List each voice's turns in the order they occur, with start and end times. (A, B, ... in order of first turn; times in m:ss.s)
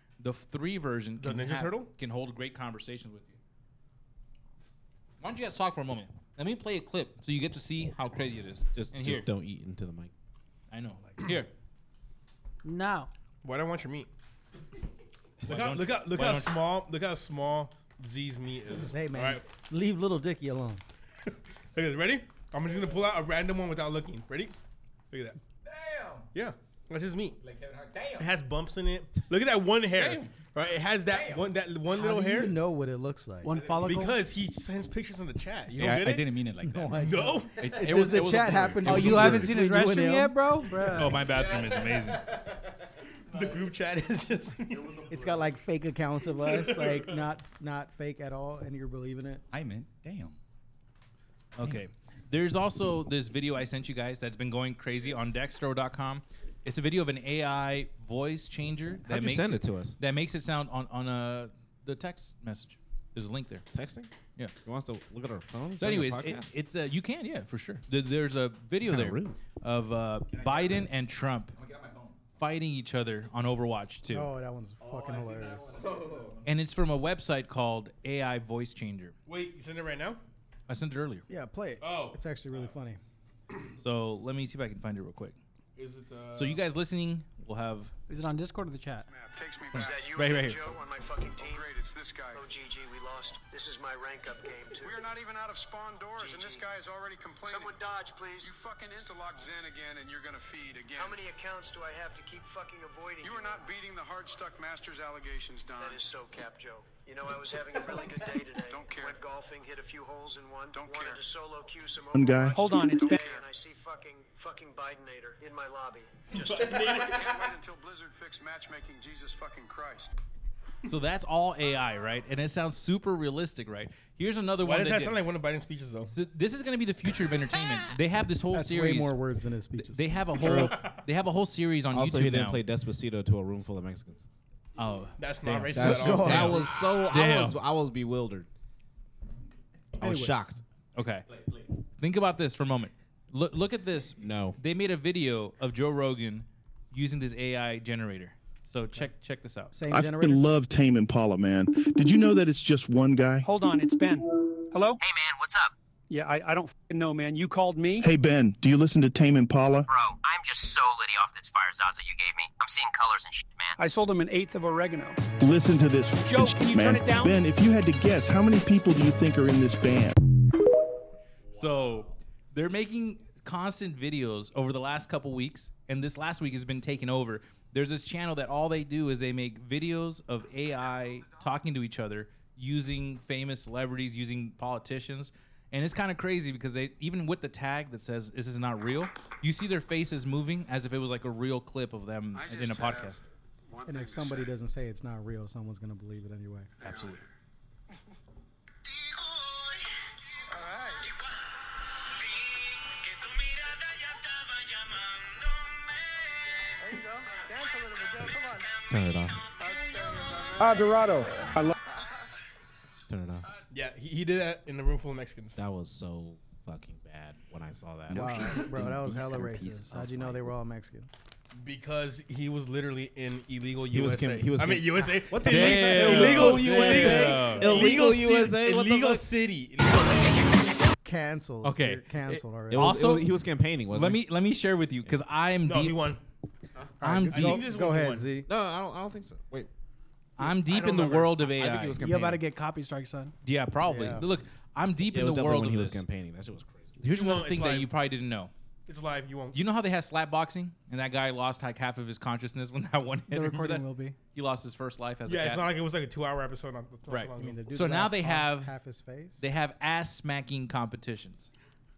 0:00.2-0:03.4 A
0:01.2-0:01.9 B
0:05.2-0:09.3 A
0:08.8-0:10.1 C
0:10.7-0:11.5 A
0:12.6-0:13.1 D
0:13.4-0:14.1 B
0:15.4-0:19.4 B
0:15.5-0:16.6 A
0:18.8-0:20.8 E
0:21.7-0:24.5 B
0:25.1-0:25.4 B
0:25.6-0:26.3 F
0:26.3-0:27.4 B
0:27.4-0:28.4 F
0:28.2-0:32.6 B
0:30.0-0:30.4 F
0:31.0-0:31.5 F
0:31.9-0:33.6 E
0:33.4-0:34.2 D
0:33.5-0:33.9 F
0:33.8-0:36.3 B
0:35.7-0:39.5 F
0:36.6-0:40.5 E
0:37.0-0:37.6 B
0:38.8-0:41.2 D
0:40.9-0:42.2 A
0:41.1-0:42.6 F
0:43.3-0:43.8 F
0:43.3-0:45.0 B
0:44.7-0:45.6 F
0:45.1-0:49.4 E
0:46.4-0:47.2 B
0:49.5-0:50.4 F
0:51.6-1:03.6 A
0:59.1-1:00.0 C
1:03.7-1:04.1 C
1:04.6-1:06.5 C
1:05.8-1:11.6 A
1:08.8-1:09.4 C
1:10.3-1:10.9 F
1:11.6-1:12.2 F
1:12.4-1:14.3 A
1:14.1-1:15.8 E
1:14.8-1:16.5 F
1:15.8-1:16.2 C
1:16.4-1:19.1 A
1:19.3-1:20.2 B
1:20.7-1:21.2 A
1:21.3-1:23.0 E
1:21.8-1:22.2 B
1:23.8-1:25.4 A
1:25.8-1:26.6 B
1:26.3-1:27.9 A
1:28.1-1:29.1 D
1:29.1-1:30.2 G
1:29.7-1:31.7 H
1:29.7-1:30.6 A
1:31.4-1:32.5 G
1:32.3-1:35.1 H
1:34.8-1:37.8 G
1:36.2-1:36.7 H
1:37.4-1:38.5 H
1:38.4-1:41.2 G
1:40.9-1:43.7 H
1:43.2-1:46.0 G
1:45.8-1:56.9 H
1:47.7-1:49.2 G
1:50.7-1:51.2 G
1:52.1-1:52.6 I
1:52.5-1:53.5 G
1:52.5-1:53.2 J
1:56.3-1:57.2 B
1:56.4-2:00.1 G
2:00.9-2:05.2 A
2:04.6-2:06.1 B
2:06.1-2:09.2 A
2:08.5-2:10.5 E
2:09.8-2:12.6 A
2:10.4-2:10.7 C
2:10.5-2:11.0 B
2:11.9-2:14.2 C
2:14.8-2:17.6 A
2:15.2-2:16.7 B
2:15.7-2:18.5 C
2:15.8-2:16.6 E
2:20.0-2:20.6 C
2:20.0-2:20.4 E
2:21.0-2:21.2 A
2:21.3-2:21.7 F
2:22.0-2:29.7 A
2:24.2-2:24.6 C
2:29.7-2:30.5 E
2:29.9-2:33.5 I
2:33.4-2:35.0 J
2:35.0-2:35.7 K
2:36.1-2:38.1 J
2:38.0-2:39.9 I
2:39.9-2:43.8 K
2:43.8-2:45.2 J
2:45.4-2:50.2 I
2:46.2-2:47.4 J
2:51.5-2:52.2 F
2:51.5-3:13.2 A
3:12.4-3:14.5 G
3:13.8-3:16.7 E
3:16.8-3:17.2 A
3:28.9-3:29.5 C
3:30.6-3:31.7 J
3:33.1-3:33.5 C
3:33.7-3:35.6 B
3:35.6-3:38.7 C
3:38.1-3:41.1 E
3:38.1-3:40.4 F
3:41.6-3:50.6 B
3:43.9-3:49.2 C
3:45.4-3:47.9 A
3:51.0-3:53.0 E
3:51.6-3:53.3 A
3:52.7-3:54.2 C
3:53.9-3:56.0 A
3:55.6-3:56.2 B
3:57.0-3:58.5 E
3:57.0-3:57.6 A
3:57.3-3:58.3 B
3:58.5-3:59.7 C
4:00.4-4:02.0 A
4:00.4-4:02.4 C
4:02.0-4:03.4 D
4:03.4-4:06.0 A
4:03.8-4:04.3 E
4:05.1-4:07.0 C
4:07.0-4:08.5 A
4:07.1-4:07.9 B
4:08.9-4:09.6 B
4:09.5-4:15.7 A
4:13.3-4:14.2 D
4:15.3-4:17.6 B
4:17.1-4:18.7 A
4:17.4-4:19.4 E
4:19.4-4:21.5 A